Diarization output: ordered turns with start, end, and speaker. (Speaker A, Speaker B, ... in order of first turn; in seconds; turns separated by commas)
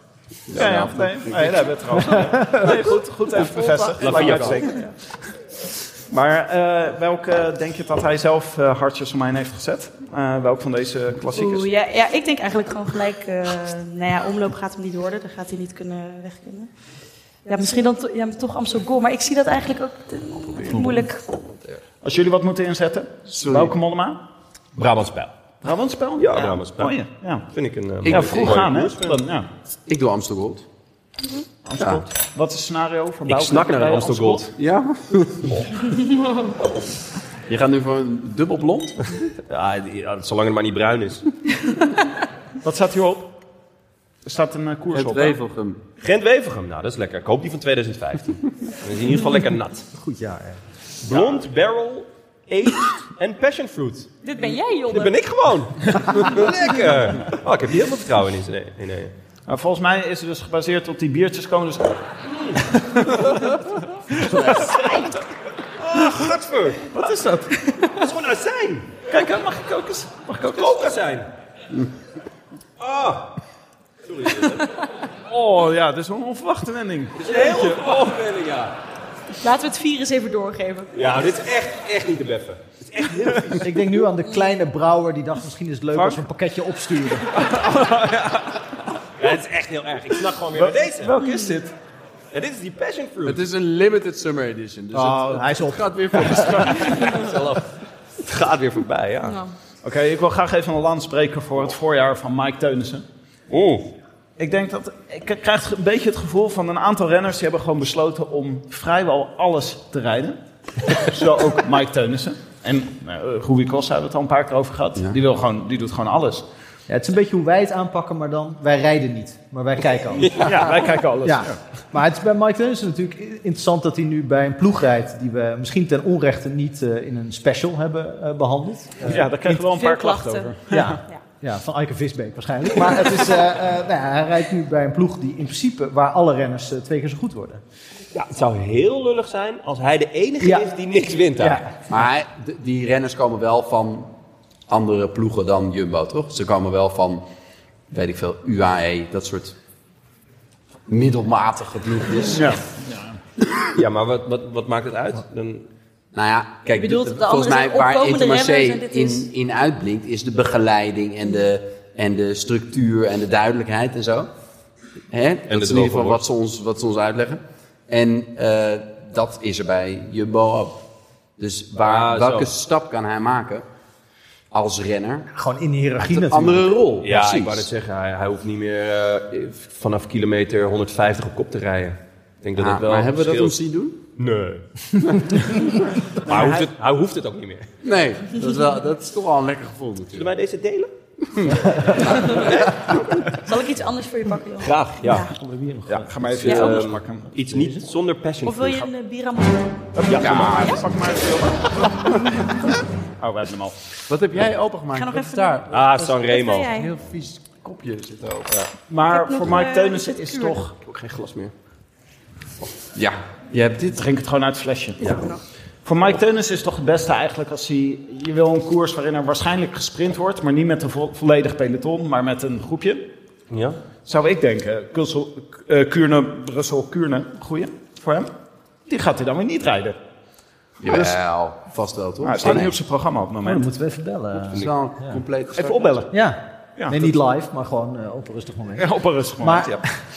Speaker A: 0.5-1.6, Speaker B: 0.5-4.9, Speaker C: 0.5-0.9, Speaker C: 4.0-4.8, Speaker A: 4.0-4.5, Speaker B: 6.1-11.7, Speaker D: 11.3-16.7, Speaker D: 17.4-21.2, Speaker B: 22.0-24.2, Speaker A: 23.3-23.8, Speaker C: 24.8-25.3, Speaker B: 25.6-27.5, Speaker C: 26.2-29.1, Speaker B: 28.0-29.5, Speaker A: 28.0-28.5, Speaker A: 29.9-30.6, Speaker B: 31.6-34.5, Speaker A: 31.8-32.0, Speaker C: 33.2-34.5, Speaker A: 34.5-35.5, Speaker C: 35.4-35.7, Speaker A: 37.5-39.3, Speaker C: 39.5-41.2, Speaker B: 42.6-43.3, Speaker B: 44.2-45.4, Speaker A: 44.9-45.8, Speaker C: 46.0-49.9, Speaker E: 49.9-50.6, Speaker C: 51.0-54.1, Speaker D: 54.2-55.2, Speaker C: 54.9-59.1, Speaker B: 59.5-62.0, Speaker B: 62.8-63.2, Speaker B: 64.1-65.1, Speaker C: 64.4-64.8, Speaker C: 65.8-66.9, Speaker B: 66.9-67.5, Speaker D: 67.6-67.9, Speaker C: 68.0-68.9, Speaker B: 69.1-70.9, Speaker C: 70.4-71.3, Speaker C: 72.8-73.3, Speaker C: 74.0-74.7, Speaker B: 75.3-77.8, Speaker C: 77.2-78.7, Speaker D: 79.4-80.9, Speaker C: 80.9-83.9, Speaker E: 83.6-87.3, Speaker C: 85.9-86.2, Speaker B: 87.4-88.4, Speaker C: 89.2-91.2, Speaker B: 90.5-91.7, Speaker C: 92.3-93.4, Speaker A: 93.2-97.2, Speaker E: 94.9-96.6, Speaker C: 96.4-99.4, Speaker D: 99.2-99.5, Speaker B: 99.8-103.0, Speaker C: 103.5-103.9, Speaker B: 104.4-110.4, Speaker B: 110.9-116.5, Speaker E: 116.9-120.6, Speaker C: 120.1-120.7, Speaker B: 120.3-121.6, Speaker E: 121.2-129.2, Speaker B: 129.0-131.0, Speaker D: 129.6-130.5, Speaker E: 130.7-137.6, Speaker C: 138.1-141.7, Speaker E: 140.4-140.7, Speaker E: 141.4-141.7, Speaker A: 141.9-144.1, Speaker A: 144.7-147.2, Speaker A: 147.9-149.5, Speaker A: 150.9-152.6, Speaker B: 152.3-153.2, Speaker C: 153.7-155.7, Speaker A: 156.1-164.3, Speaker D: 156.7-159.3, Speaker A: 165.1-170.8, Speaker C: 165.5-166.2, Speaker A: 171.4-173.6, Speaker C: 171.8-172.5, Speaker A: 174.5-175.3, Speaker E: 175.3-176.8, Speaker A: 176.0-177.7, Speaker C: 177.0-183.6, Speaker A: 182.6-184.0, Speaker C: 184.2-184.7, Speaker C: 185.2-185.6, Speaker C: 186.2-187.7, Speaker B: 186.3-186.6, Speaker A: 187.8-190.3, Speaker C: 190.1-190.9, Speaker A: 191.3-191.7, Speaker C: 191.7-193.0, Speaker D: 193.4-195.3, Speaker C: 194.6-198.9, Speaker B: 195.8-197.8, Speaker D: 198.4-199.9, Speaker B: 199.9-202.5, Speaker C: 200.1-200.6, Speaker A: 200.1-200.8, Speaker B: 203.2-203.8, Speaker A: 204.1-206.2, Speaker D: 204.9-206.9, Speaker C: 205.7-206.7, Speaker A: 206.7-208.5, Speaker B: 208.9-210.7, Speaker D: 209.1-210.6, Speaker C: 210.8-211.5, Speaker A: 212.9-214.0, Speaker B: 213.9-215.2, Speaker D: 215.1-215.4, Speaker B: 215.8-223.1, Speaker C: 223.5-223.8, Speaker B: 224.0-228.3, Speaker B: 228.9-230.0, Speaker A: 230.8-232.7, Speaker B: 230.8-231.2, Speaker B: 232.2-233.6, Speaker E: 233.4-235.2, Speaker A: 234.5-236.1, Speaker B: 235.5-236.1, Speaker E: 236.1-238.9, Speaker B: 236.8-237.1, Speaker B: 238.8-239.8, Speaker E: 239.4-239.8